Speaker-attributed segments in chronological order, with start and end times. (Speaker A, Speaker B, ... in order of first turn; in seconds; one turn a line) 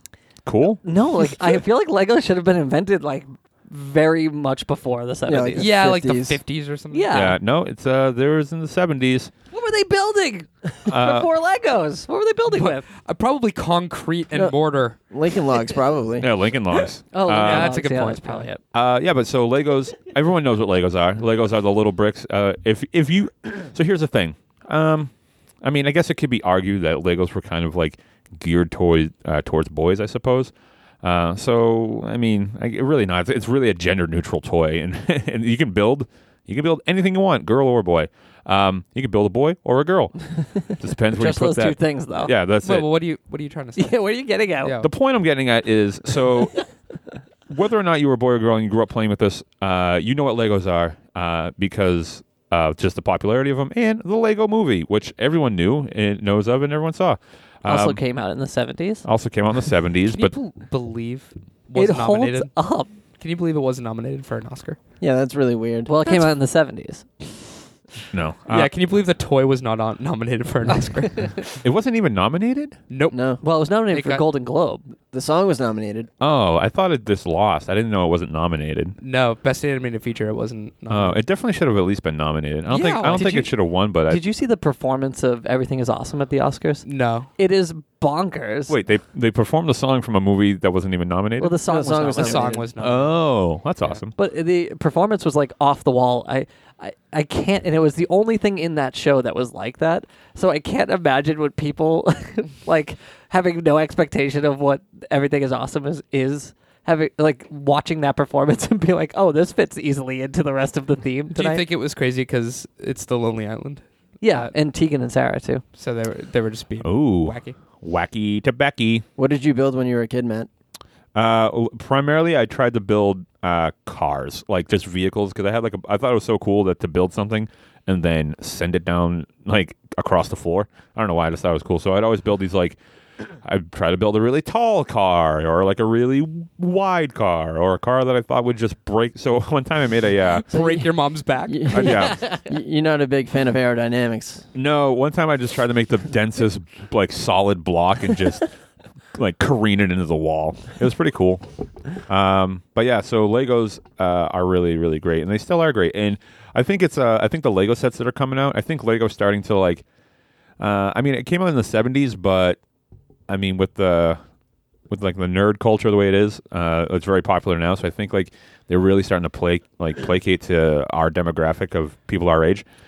Speaker A: 0.5-0.8
Speaker B: 0.8-5.7
Speaker C: 5.3-6.4
Speaker D: 5.6-7.3
Speaker B: 6.9-7.4
Speaker A: 7.1-9.3
Speaker B: 9.5-12.9
Speaker A: 10.9-11.3
Speaker D: 12.6-15.0
Speaker C: 15.1-16.3
Speaker A: 16.2-17.8
Speaker B: 17.1-18.6
Speaker D: 17.3-18.5
Speaker A: 18.7-25.1
Speaker A: 25.6-42.9
Speaker B: 41.1-42.3
Speaker D: 42.6-44.0
Speaker B: 43.8-44.8
Speaker D: 44.6-44.9
Speaker A: 44.8-46.7
Speaker A: 47.5-58.0
Speaker B: 57.6-59.0
Speaker A: 59.0-60.3
Speaker D: 60.1-62.5
Speaker B: 61.8-62.9
Speaker D: 63.2-64.8
Speaker C: 65.0-66.2
Speaker B: 65.9-67.1
Speaker A: 68.1-68.7
Speaker D: 68.5-71.4
Speaker A: 71.6-72.8
Speaker D: 72.9-73.2
Speaker C: 73.1-73.4
Speaker B: 73.4-74.9
Speaker D: 73.9-74.2
Speaker C: 75.1-76.1
Speaker A: 76.2-79.0
Speaker D: 79.0-81.2
Speaker A: 80.9-84.2
Speaker D: 82.7-83.5
Speaker B: 83.1-83.5
Speaker B: 84.1-86.8
Speaker D: 86.8-87.3
Speaker B: 87.4-88.8
Speaker A: 88.7-91.6
Speaker B: 91.4-92.7
Speaker C: 91.7-92.6
Speaker D: 92.2-93.1
Speaker A: 92.8-94.1
Speaker B: 94.2-111.7
Speaker D: 111.3-113.8
Speaker B: 114.2-115.6
Speaker D: 115.8-117.6
Speaker A: 116.8-119.0
Speaker C: 119.2-120.5
Speaker A: 121.2-132.8
Speaker A: 133.4-140.5
Speaker D: 140.3-142.0
Speaker C: 140.5-140.9
Speaker C: 141.5-144.5
Speaker A: 141.7-142.2
Speaker A: 144.5-148.5
Speaker A: 149.1-151.4
Speaker A: 152.0-159.8
Speaker A: 160.6-162.6
Speaker A: 163.3-164.2
Speaker A: 164.9-172.6